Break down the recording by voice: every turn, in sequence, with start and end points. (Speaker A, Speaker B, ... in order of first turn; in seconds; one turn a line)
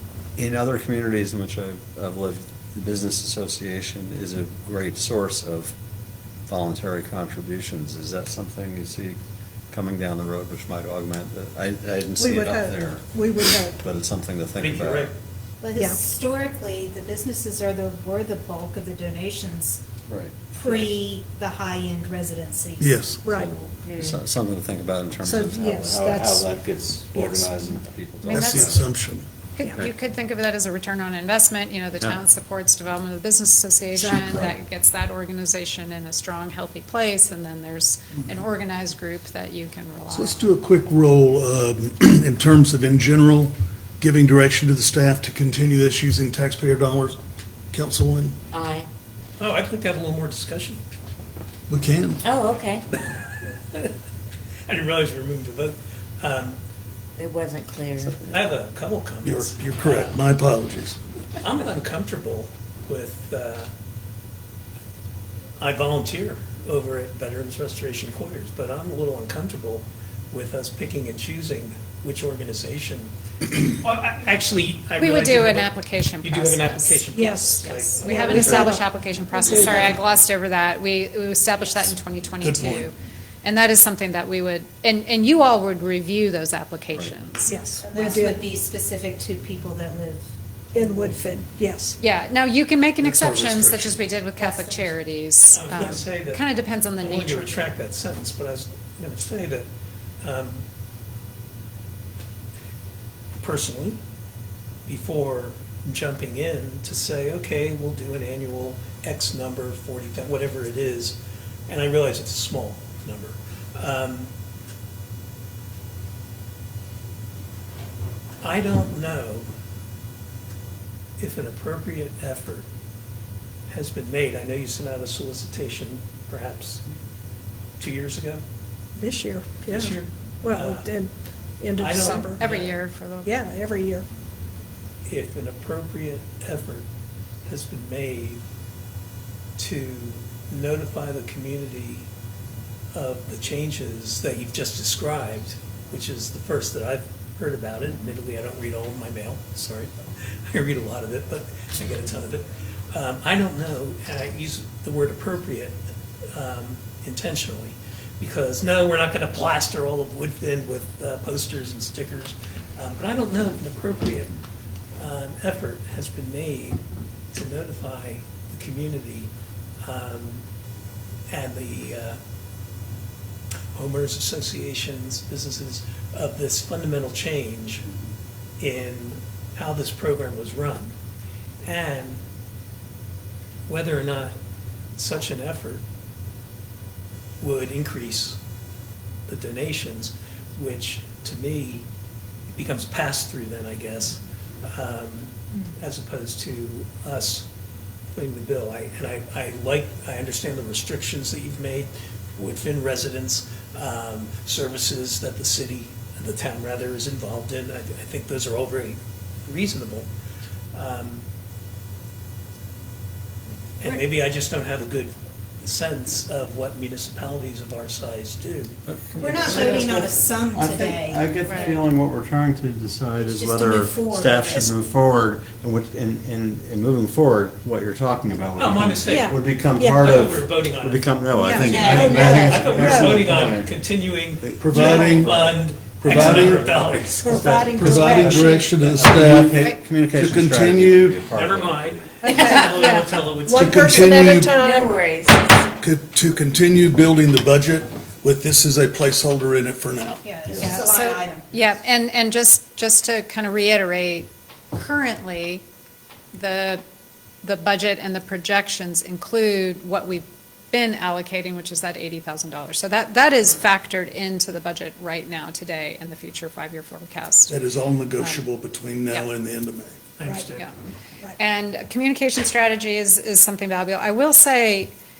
Speaker A: 0.4-5.8
Speaker A: 6.5-9.2
Speaker A: 9.7-15.1
Speaker B: 12.2-13.8
Speaker C: 14.6-15.1
Speaker D: 15.6-19.8
Speaker A: 20.1-20.4
Speaker D: 20.5-22.9
Speaker E: 22.8-23.3
Speaker B: 23.2-23.5
Speaker A: 23.3-28.8
Speaker F: 23.8-24.2
Speaker B: 25.2-26.4
Speaker B: 27.1-27.5
Speaker E: 28.2-29.3
Speaker G: 28.3-28.9
Speaker G: 29.6-40.5
Speaker B: 34.0-34.5
Speaker E: 40.1-47.2
Speaker E: 47.7-48.4
Speaker F: 48.5-48.9
Speaker C: 49.4-50.8
Speaker E: 51.7-52.2
Speaker F: 52.2-52.8
Speaker C: 52.9-53.9
Speaker C: 54.7-56.6
Speaker F: 57.2-58.3
Speaker C: 58.3-60.2
Speaker E: 59.2-61.0
Speaker C: 61.4-63.7
Speaker C: 65.6-78.8
Speaker G: 75.0-88.2
Speaker B: 77.1-78.8
Speaker B: 79.3-79.9
Speaker E: 82.4-82.9
Speaker B: 87.5-88.4
Speaker D: 87.8-90.3
Speaker B: 90.7-92.0
Speaker G: 92.0-97.6
Speaker E: 93.0-93.9
Speaker D: 94.4-94.8
Speaker C: 95.5-96.5
Speaker C: 97.0-99.7
Speaker C: 100.2-100.6
Speaker C: 103.4-104.0
Speaker C: 104.9-114.3
Speaker C: 118.4-119.5
Speaker C: 121.2-122.7
Speaker C: 123.7-126.8
Speaker C: 127.8-128.4
Speaker B: 129.0-132.4
Speaker C: 129.7-130.9
Speaker C: 131.8-132.8
Speaker G: 132.0-133.3
Speaker B: 133.2-134.1
Speaker C: 135.0-136.8
Speaker C: 137.5-138.4
Speaker C: 139.6-142.1
Speaker C: 142.9-149.9
Speaker C: 150.5-155.8
Speaker C: 156.3-164.3
Speaker C: 165.0-166.8
Speaker C: 167.3-169.3
Speaker C: 169.8-170.4
Speaker C: 171.3-172.2
Speaker C: 173.7-177.8
Speaker C: 178.6-180.9
Speaker C: 181.6-182.2
Speaker C: 183.7-184.3
Speaker C: 185.0-185.8
Speaker C: 187.4-188.4
Speaker C: 189.3-191.8
Speaker C: 192.5-197.5
Speaker C: 198.1-210.1
Speaker C: 210.7-211.2
Speaker C: 213.8-218.8
Speaker A: 218.9-233.7
Speaker D: 219.2-221.8
Speaker G: 221.5-221.8
Speaker D: 223.3-224.7
Speaker C: 228.6-237.2
Speaker B: 229.1-230.0
Speaker E: 231.6-232.2
Speaker D: 231.7-232.4
Speaker F: 231.8-232.7
Speaker B: 232.7-233.2
Speaker A: 234.4-242.2
Speaker E: 234.6-235.4
Speaker E: 236.0-236.8
Speaker D: 237.2-238.7
Speaker E: 237.5-241.2
Speaker C: 241.3-244.0
Speaker B: 242.2-244.9
Speaker E: 243.5-244.6
Speaker F: 244.5-245.7
Speaker E: 245.8-250.2
Speaker D: 250.2-251.4
Speaker G: 250.6-255.6
Speaker G: 256.3-256.8
Speaker G: 257.4-267.6
Speaker E: 267.5-270.0
Speaker C: 270.2-270.7
Speaker G: 271.4-274.9